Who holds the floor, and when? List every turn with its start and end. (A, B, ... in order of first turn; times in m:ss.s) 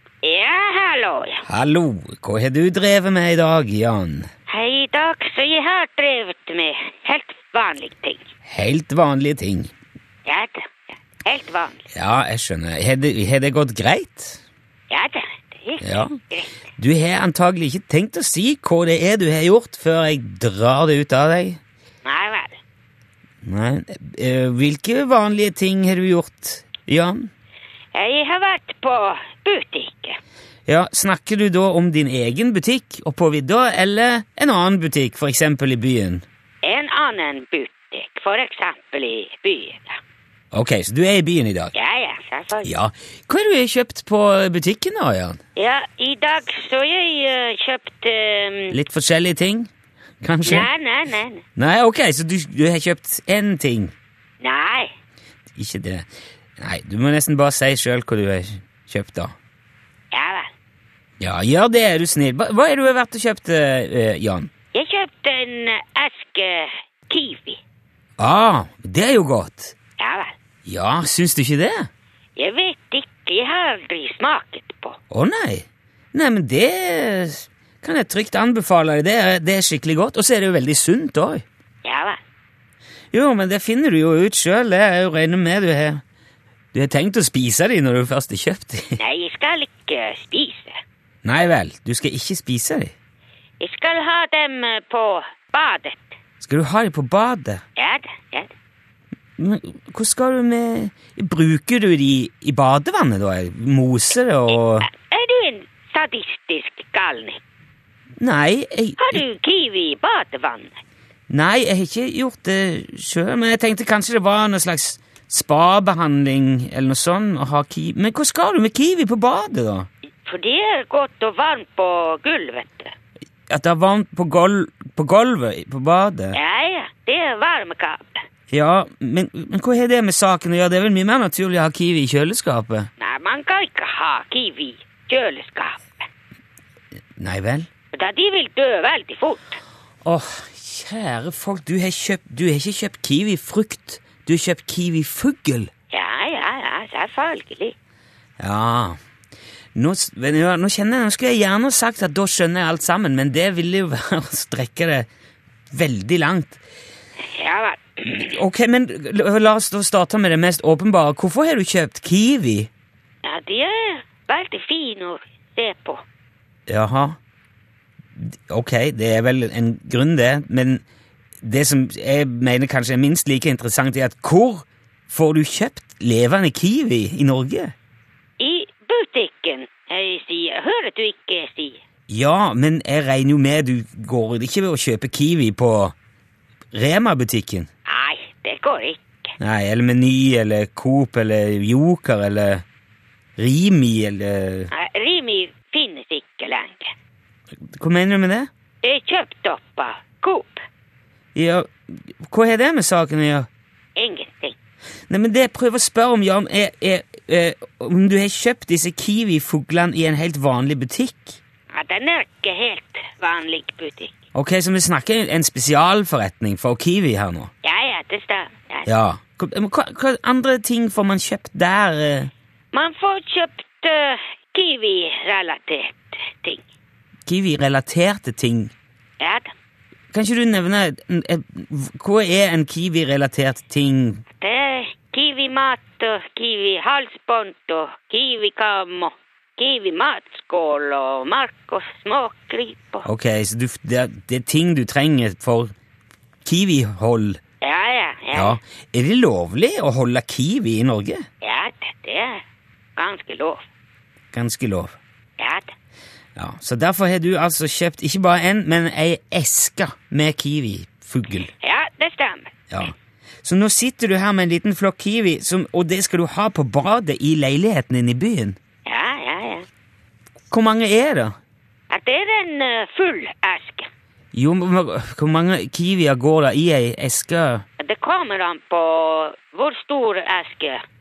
0:00.2-0:01.4 A
0:01.4-0:04.3 B
0:04.5-0:08.3 A
0:08.4-0:09.7 B
0:10.2-0:11.9 A
0:11.9-0:14.4 B
0:14.9-0:16.5 A
0:15.8-0:16.2 B
0:16.8-0:21.6 B
0:22.0-0:22.6 A
0:23.4-0:27.3 B
0:27.9-0:30.2 A
0:30.7-0:36.2 B
0:36.6-0:40.0 A
0:40.5-0:41.7 B
0:41.7-0:42.7 A
0:42.6-0:45.4 B
0:45.6-0:48.8 A
0:48.7-0:49.7 B
0:50.2-0:50.7 B
0:50.4-0:51.4 A
0:51.6-0:53.9 B
0:54.4-0:54.9 A
0:55.6-0:59.3 B
1:00.1-1:00.5 A
1:01.2-1:04.5 B
1:04.7-1:07.6 A
1:08.2-1:09.8 B
1:10.0-1:10.3 A
1:10.6-1:11.9 B
1:12.4-1:15.0 A
1:15.1-1:21.4 B
1:21.8-1:22.2 A
1:23.1-1:26.0 B
1:26.7-1:29.0 B
1:29.0-1:30.7 A
1:31.2-1:32.9 B
1:33.6-1:36.1 A
1:36.4-1:37.6 B
1:37.8-1:38.5 A
1:39.4-1:44.9 B
1:44.8-1:47.4 A
1:48.2-1:49.2 B
1:49.0-1:50.8 A
1:51.3-1:59.9 B
2:00.2-2:02.9 A
2:03.5-2:06.4 B
2:06.3-2:08.2 A
2:08.5-2:12.9 B
2:13.0-2:16.0 A
2:17.2-2:17.7 B
2:17.9-2:19.6 A
2:20.0-2:25.7 B
2:25.9-2:27.7 A
2:28.4-2:29.0 B
2:29.7-2:35.1 B
2:35.7-2:36.6 B
2:37.3-2:38.4 A
2:38.0-2:42.7 B
2:43.2-2:46.0 A
2:46.7-2:47.2 B
2:48.2-2:50.8 B
2:51.4-2:57.7 B
2:58.4-3:01.8 A
3:02.1-3:05.9 B
3:06.7-3:07.7 B
3:07.9-3:09.3 A
3:09.4-3:12.6 B
3:13.4-3:14.7 B
3:14.7-3:16.9 A
3:17.6-3:18.5 B
3:18.8-3:20.6 A
3:21.3-3:23.5 B
3:24.0-3:24.6 A
3:25.1-3:31.4 B
3:31.7-3:34.1 A
3:34.3-3:37.5 B
3:37.6-3:38.9 A
3:38.8-3:42.3 B
3:42.7-3:46.6 A
3:47.2-3:48.7 B
3:49.2-3:49.5 A
3:50.1-3:54.2 B
3:54.4-4:03.0 A
4:03.0-4:05.7 B
4:06.4-4:07.4 B
4:07.6-4:08.6 A
4:08.3-4:11.2 B
4:11.4-4:12.4 A
4:13.0-4:13.6 A
4:14.3-4:15.0 B
4:15.4-4:15.7 A
4:16.4-4:21.5 B
4:21.6-4:22.5 A
4:22.7-4:28.6 B
4:28.8-4:29.6 A
4:30.5-4:31.3 B
4:31.9-4:33.9 A
4:34.3-4:37.6 B
4:37.8-4:40.8 A